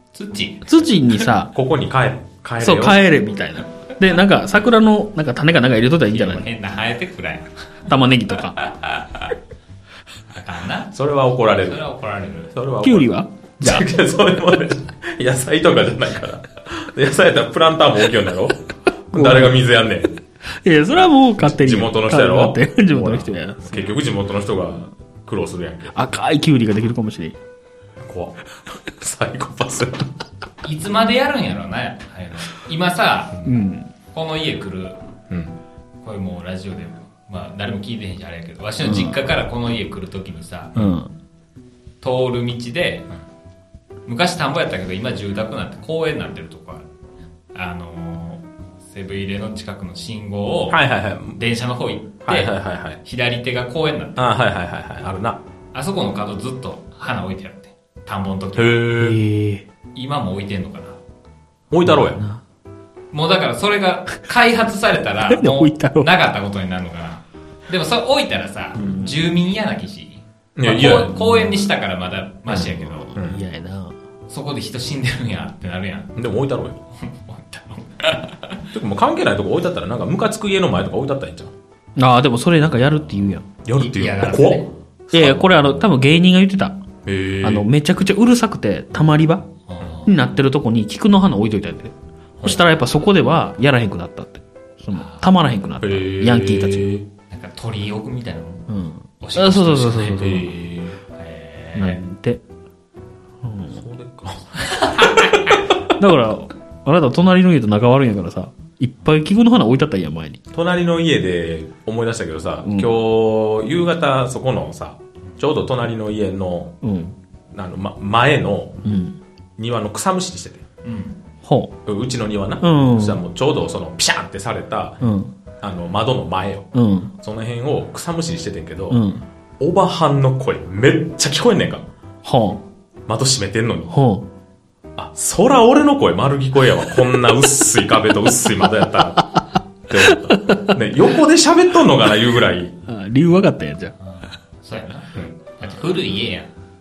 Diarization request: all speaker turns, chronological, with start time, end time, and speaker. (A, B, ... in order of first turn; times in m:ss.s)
0:00.1-0:00.7 A
0:00.6-0:01.5 B
0:01.5-0:03.0 C
0:02.6-0:06.5 B
0:06.1-0:07.9 A
0:07.9-0:08.6 B
0:08.6-0:09.3 A
0:10.3-0:10.9 A
0:10.9-0:11.8 C
0:11.6-0:12.5 A
0:12.5-0:13.1 C
0:12.8-0:13.9 B
0:13.6-0:20.1 C
0:19.1-0:19.6 B
0:20.6-0:23.9 B
0:21.4-0:26.0 C
0:25.9-0:27.4 B
0:28.0-0:30.1 C
0:30.6-0:33.5 A
0:33.5-0:33.9 B
0:34.1-0:35.0 A
0:35.3-0:35.6 C
0:36.0-0:40.9 A
0:38.8-0:39.2 B
0:40.8-0:41.1 B
0:42.0-0:43.1 A
0:44.0-0:46.9 A
0:47.5-0:50.8 A
0:50.7-0:51.4 C
0:51.4-0:54.3 A
0:52.3-0:53.0 C
0:54.2-0:55.4 C
0:55.7-0:58.9 A
0:58.6-0:59.2 C
0:59.0-0:59.6 B
1:00.0-1:01.0 A
1:01.7-1:02.2 C
1:01.9-1:02.4 B
1:03.1-1:13.1 A
1:05.3-1:06.1 B
1:08.8-1:09.2 B
1:10.6-1:11.3 C
1:12.5-1:14.0 B
1:14.3-1:16.2 A
1:16.2-1:16.8 C
1:16.9-1:18.7 A
1:18.7-1:21.5 C
1:22.0-1:23.5 B
1:23.6-1:25.7 C
1:23.7-1:24.7 A
1:25.1-1:26.8 B
1:27.0-1:27.7 C
1:27.4-1:29.5 B
1:29.7-1:30.1 A
1:30.0-1:36.9 B
1:34.9-1:35.3 A
1:35.8-1:37.1 C
1:37.3-1:38.7 A
1:38.7-1:40.6 B
1:39.2-1:40.5 A
1:40.2-1:41.0 C
1:41.1-1:42.0 A
1:41.8-1:42.4 B
1:43.4-1:43.8 B
1:43.8-1:45.1 C
1:44.6-1:45.6 A
1:46.0-1:50.4 B
1:50.5-1:56.8 C
1:52.6-1:52.9 B
1:56.8-1:57.2 B
1:57.5-1:58.8 C
1:58.8-1:59.2 B
1:59.6-2:00.6 C
2:00.8-2:01.2 A
2:01.4-2:01.7 B
2:01.9-2:05.0 C
2:02.6-2:03.2 B
2:05.0-2:05.3 B
2:05.6-2:09.0 C
2:06.7-2:07.1 B
2:08.9-2:09.2 B
2:09.6-2:11.8 C
2:12.2-2:12.6 B
2:13.1-2:13.9 C
2:13.9-2:14.3 B
2:15.0-2:22.8 C
2:20.0-2:20.7 B
2:22.9-2:24.0 B
2:24.0-2:26.5 A